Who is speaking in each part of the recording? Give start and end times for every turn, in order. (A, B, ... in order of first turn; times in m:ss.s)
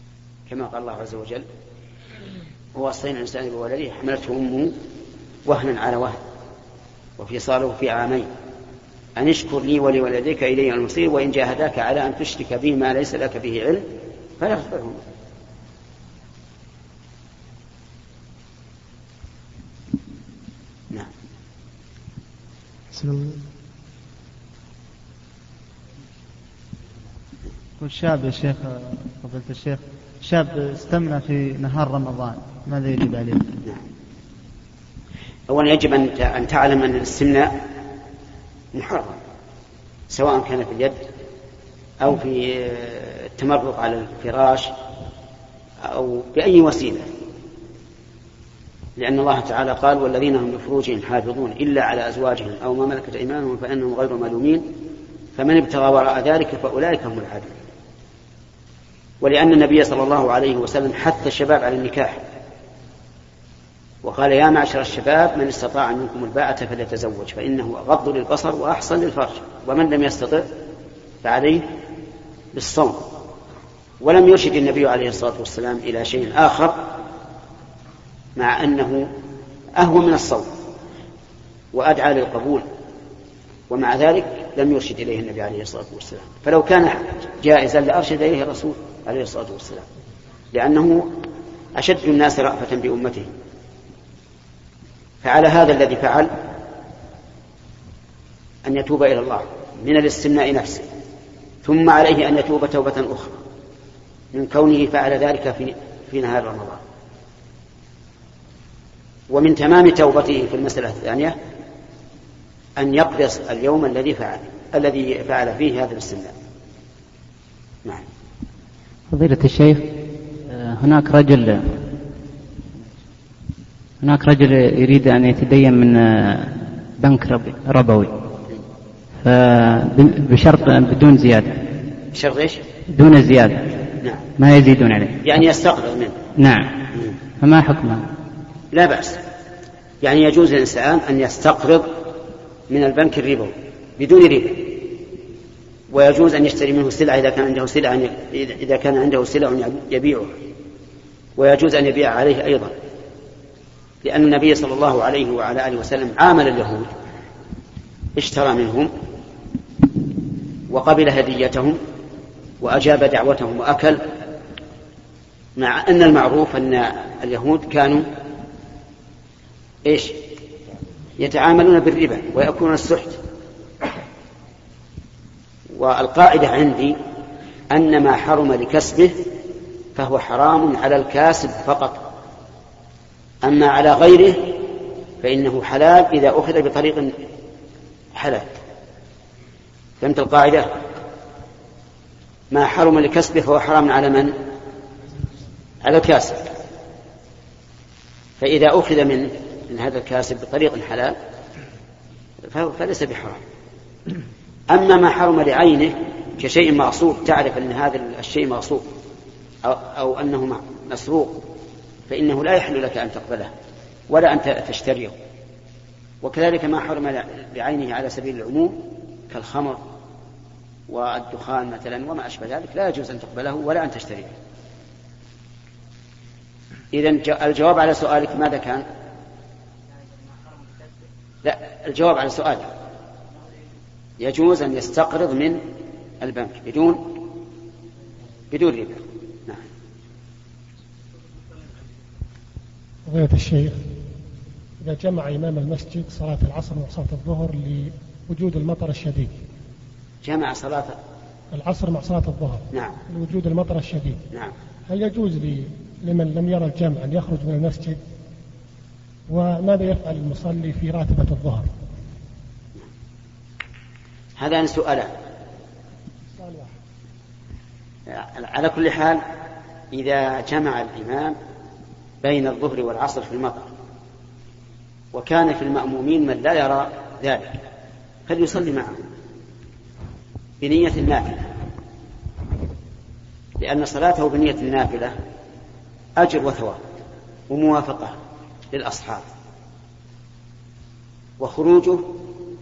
0:00.5-0:01.4 A
0:02.8-0:04.7 A
0:05.5-0:06.2 A
0:07.2-0:08.3 A
0:09.2-0:13.9 A
0:14.4-0:15.0 A
0:27.8-0:33.5 B
0:35.5-0:37.5 A
0:38.7-0:39.2 A
0:40.1-0:41.0 A
0:42.0-0:44.7 A
0:45.8-0:47.1 A
0:49.0-0:54.6 A
0:55.4-0:57.5 A
0:59.2-1:02.2 A
1:04.0-1:10.5 A
1:11.2-1:11.7 A
1:12.5-1:13.1 A
1:14.0-1:16.9 A
1:18.4-1:19.1 A
1:19.8-1:20.5 A
1:21.7-1:22.6 A
1:23.7-1:29.8 A
1:30.5-1:31.1 A
1:31.8-1:33.3 A
1:35.2-1:36.3 A
1:38.6-1:40.9 A
1:41.6-1:43.4 A
1:44.3-1:46.8 A
1:49.3-1:51.4 A
1:52.8-1:56.3 A
1:59.1-1:59.9 C
2:00.5-2:01.8 C
2:04.0-2:08.1 C
2:09.2-2:11.6 C
2:12.1-2:12.6 A
2:12.9-2:13.7 C
2:14.4-2:15.2 C
2:15.2-2:16.1 A
2:16.4-2:16.7 C
2:17.4-2:18.1 C
2:18.7-2:19.2 A
2:20.0-2:21.9 A
2:22.7-2:24.9 A
2:25.9-2:30.4 A
2:31.4-2:32.7 A
2:34.0-2:36.9 A
2:38.2-2:38.9 A
2:40.7-2:41.8 A
2:42.6-2:44.0 A
2:45.6-2:48.1 A
2:49.8-2:50.2 A
2:51.2-2:53.2 A
2:55.7-2:57.0 A
2:57.7-2:59.2 A
3:00.0-3:02.0 A
3:03.4-3:04.6 A
3:05.2-3:07.1 A
3:08.1-3:08.5 A
3:10.0-3:10.7 A
3:12.5-3:14.3 A
3:15.8-3:16.4 A
3:18.4-3:21.2 A
3:22.5-3:23.4 A
3:24.7-3:28.9 A
3:29.6-3:31.4 A
3:32.1-3:33.5 A
3:34.1-3:35.1 A
3:36.2-3:38.8 A
3:39.3-3:39.8 A
3:40.9-3:44.4 A
3:46.9-3:48.8 A
3:51.4-3:52.7 A
3:54.2-3:55.6 A
3:56.2-3:57.1 A
3:58.5-3:59.6 A
4:03.1-4:03.8 D
4:04.8-4:09.4 D
4:10.2-4:11.0 A
4:11.5-4:14.2 D
4:12.7-4:13.0 A
4:14.9-4:18.0 D
4:19.3-4:21.7 D
4:24.4-4:25.1 A
4:26.4-4:26.7 D
4:28.1-4:29.2 A
4:29.9-4:31.4 A
4:32.2-4:33.7 A
4:35.1-4:37.6 A
4:38.3-4:39.0 A
4:40.6-4:41.5 A
4:43.6-4:45.1 A
4:46.2-4:46.8 A
4:47.5-4:48.2 A
4:48.7-4:49.2 A
4:51.4-4:52.2 A